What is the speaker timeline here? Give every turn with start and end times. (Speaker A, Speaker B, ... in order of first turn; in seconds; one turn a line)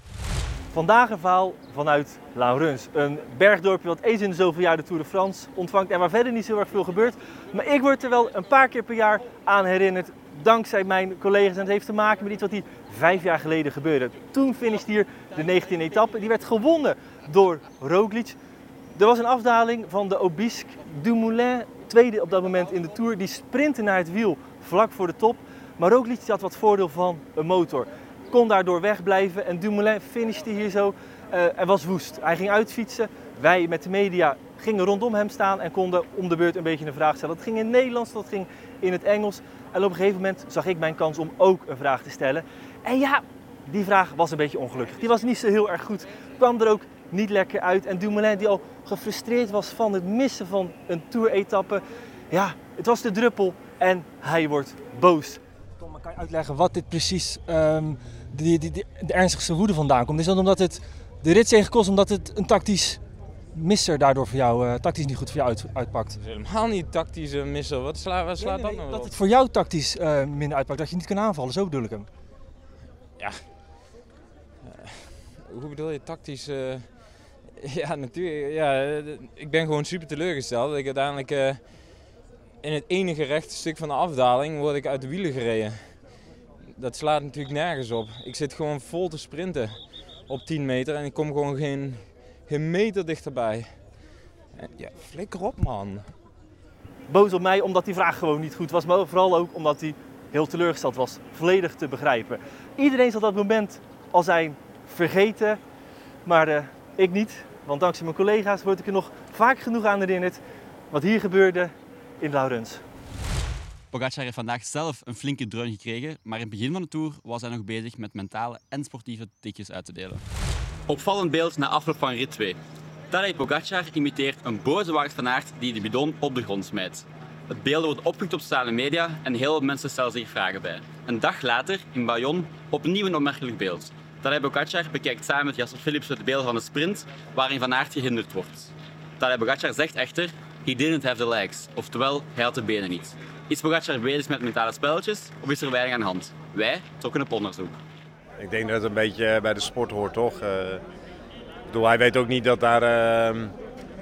Speaker A: 0.7-18.4
Speaker A: 18.9-63.0
Speaker A: 63.5-66.2
Speaker B: 66.2-69.2
Speaker A: 68.4-72.1
Speaker B: 73.2-73.5
Speaker B: 74.6-96.1
Speaker A: 97.1-105.6
Speaker A: 106.3-112.8
Speaker C: 113.9-120.2
Speaker C: 120.9-122.6
Speaker C: 123.1-147.8
Speaker D: 148.4-150.8
Speaker D: 151.7-153.5